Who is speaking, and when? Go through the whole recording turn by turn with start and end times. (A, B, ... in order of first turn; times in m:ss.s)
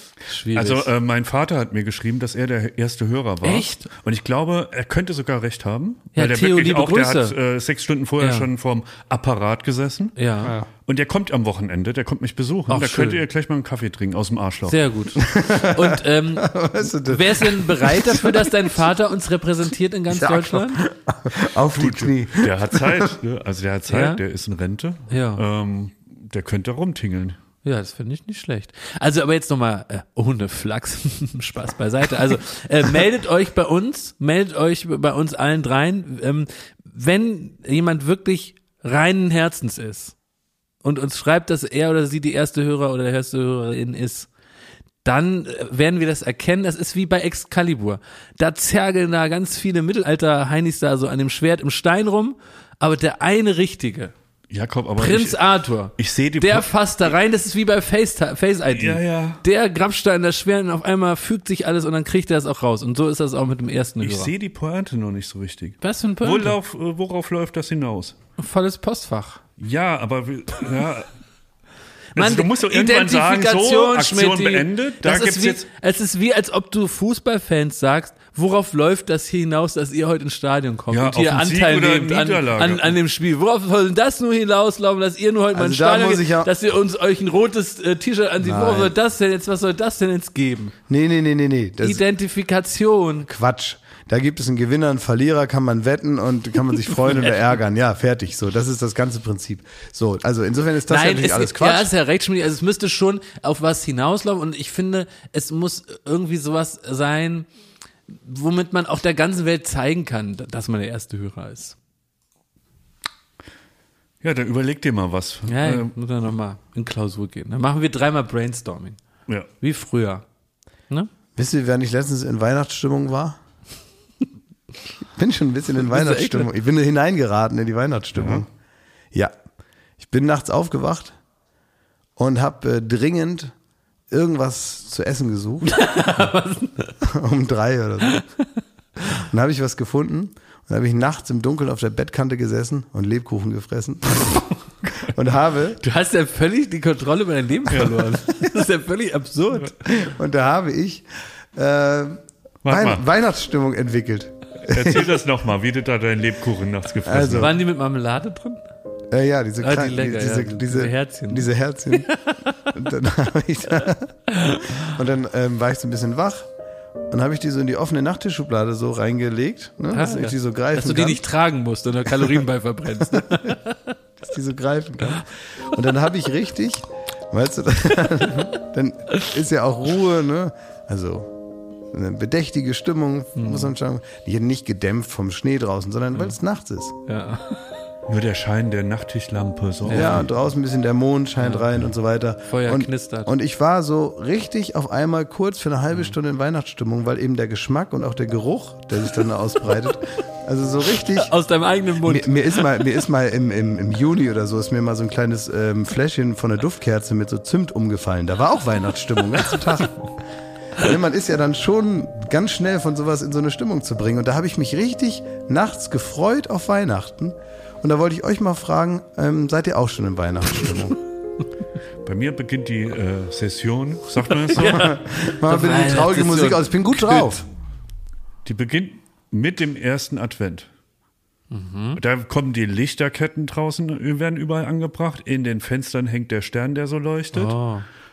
0:00.3-0:00.9 A
0:00.5-0:10.2 B
0:03.4-0:03.9 A
0:06.2-0:07.3 A
0:08.2-0:08.5 A
0:10.2-0:10.5 A
0:10.9-0:14.8 B
0:12.7-0:13.2 A
0:14.7-0:20.8 A
0:15.2-0:18.5 C
0:20.1-0:23.1 C
0:21.7-0:27.4 B
0:23.9-0:24.2 A
0:25.1-0:25.4 A
0:27.6-0:40.2 A
0:40.8-0:44.3 A
0:45.0-0:54.1 A
0:54.5-0:55.4 B
0:55.0-1:04.3 A
0:56.0-0:56.7 B
0:58.7-0:59.4 B
1:04.0-1:08.2 B
1:05.8-1:06.5 A
1:08.4-1:09.4 A
1:09.6-1:11.1 B
1:12.2-1:15.7 B
1:12.2-1:30.7 A
1:20.9-1:23.0 B
1:25.5-1:26.5 C
1:28.4-1:28.9 C
1:30.9-1:32.0 C
1:31.8-1:33.3 A
1:33.3-1:41.9 C
1:40.9-1:47.5 A
1:48.1-1:51.8 A
1:54.2-1:55.9 B
1:55.5-1:59.0 A
1:59.6-2:00.2 A
2:01.4-2:03.4 C
2:05.2-2:08.5 C
2:05.9-2:06.5 A
2:08.2-2:08.4 B
2:10.0-2:11.2 C
2:12.2-2:13.5 C
2:14.1-2:15.8 C
2:15.6-2:17.0 A
2:17.0-2:18.2 C
2:19.1-2:24.4 C
2:25.1-2:25.8 C
2:25.8-2:29.7 A
2:27.7-2:28.2 B
2:29.8-2:35.2 C
2:32.6-2:33.0 B
2:34.7-2:37.5 B
2:37.1-2:37.5 C
2:37.4-2:38.6 A
2:39.1-2:42.1 C
2:39.6-2:42.8 A
2:42.8-2:46.5 C
2:44.3-2:44.9 A
2:47.1-2:51.2 C
2:49.9-2:53.9 A
2:53.1-2:53.5 C
2:54.2-3:01.3 C
3:01.9-3:07.0 C
3:03.4-3:03.7 A
3:07.1-3:07.7 A
3:08.1-3:10.3 B
3:09.9-3:10.2 A
3:09.9-3:21.3 C
3:11.4-3:11.7 A
3:12.5-3:13.3 A
3:21.1-3:22.8 A
3:22.0-3:30.1 C
3:30.8-3:41.0 C
3:42.0-3:44.9 B
3:44.5-3:47.3 A
3:44.8-3:47.4 C
3:48.4-3:50.7 B
3:51.5-3:52.0 A
3:52.0-3:57.6 B
3:57.3-3:57.8 A